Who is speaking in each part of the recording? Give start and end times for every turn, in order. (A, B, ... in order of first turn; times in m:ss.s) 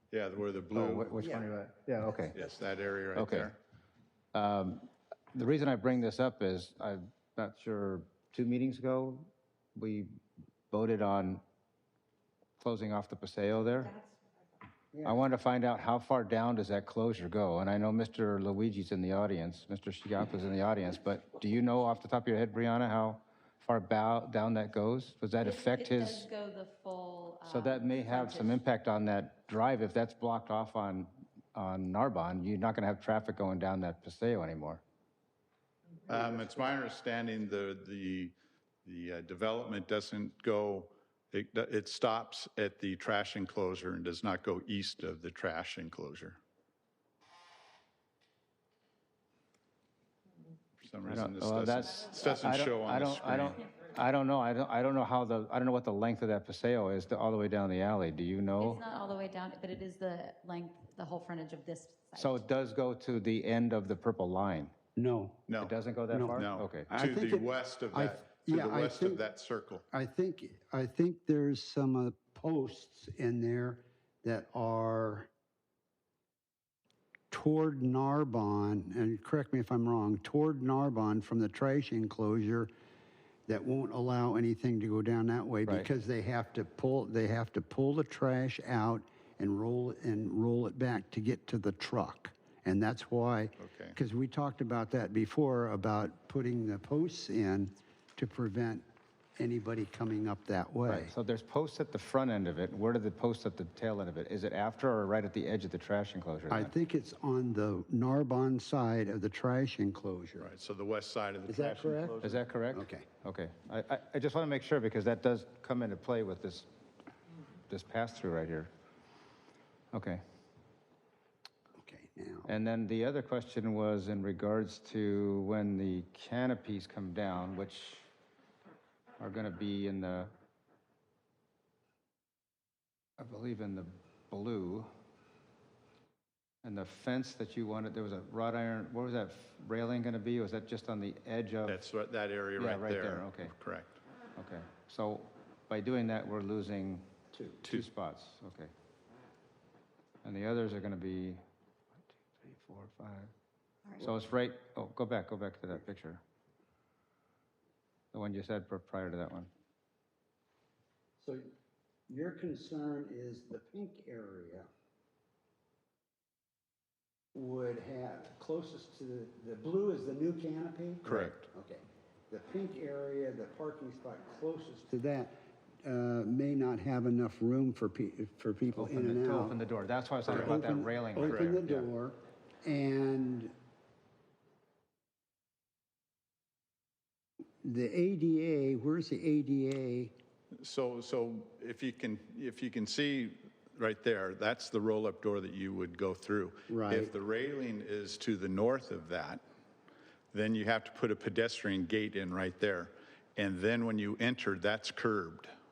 0:00.1-0:01.3 A
0:00.7-0:02.4 B
0:01.2-0:01.5 C
0:02.4-0:03.6 A
0:03.2-0:03.5 B
0:04.3-0:10.2 B
0:10.7-0:11.4 B
0:12.6-0:14.0 B
0:14.9-0:15.2 C
0:15.0-0:26.3 B
0:25.4-0:28.6 D
0:27.5-0:34.8 B
0:36.1-0:46.4 A
0:50.8-0:53.6 A
0:51.1-0:58.8 B
0:58.6-1:02.5 D
1:02.2-1:04.7 B
1:05.0-1:05.5 C
1:05.5-1:05.8 A
1:05.6-1:06.9 B
1:06.1-1:09.2 C
1:06.3-1:09.9 A
1:09.9-1:15.3 C
1:17.3-1:22.7 C
1:23.5-1:38.8 C
1:33.6-1:34.0 A
1:39.4-1:41.1 C
1:40.9-1:46.7 B
1:46.5-1:50.5 C
1:50.4-1:52.4 A
1:51.5-1:53.1 C
1:52.2-1:56.7 B
1:57.7-1:58.7 B
1:59.9-2:00.2 B
2:01.8-2:02.5 C
2:02.5-2:08.1 B
2:09.2-2:10.3 B
2:13.2-2:14.9 B
2:16.6-2:21.8 B
2:21.7-2:23.9 A
2:22.6-2:23.5 B
2:24.4-2:27.1 B
2:27.3-2:27.6 C
2:27.6-2:28.7 B
2:30.2-2:31.4 B
2:32.0-2:33.3 B
2:34.0-2:36.2 B
2:38.1-2:39.5 B
2:41.2-2:41.5 C
2:42.1-2:44.7 C
2:47.4-2:59.6 C
2:51.0-2:51.5 A
2:58.7-3:01.9 B
3:00.3-3:03.5 C
3:01.2-3:01.6 A
3:07.6-3:10.1 C
3:10.6-3:19.4 A
3:16.7-3:17.1 C
3:20.3-3:25.5 A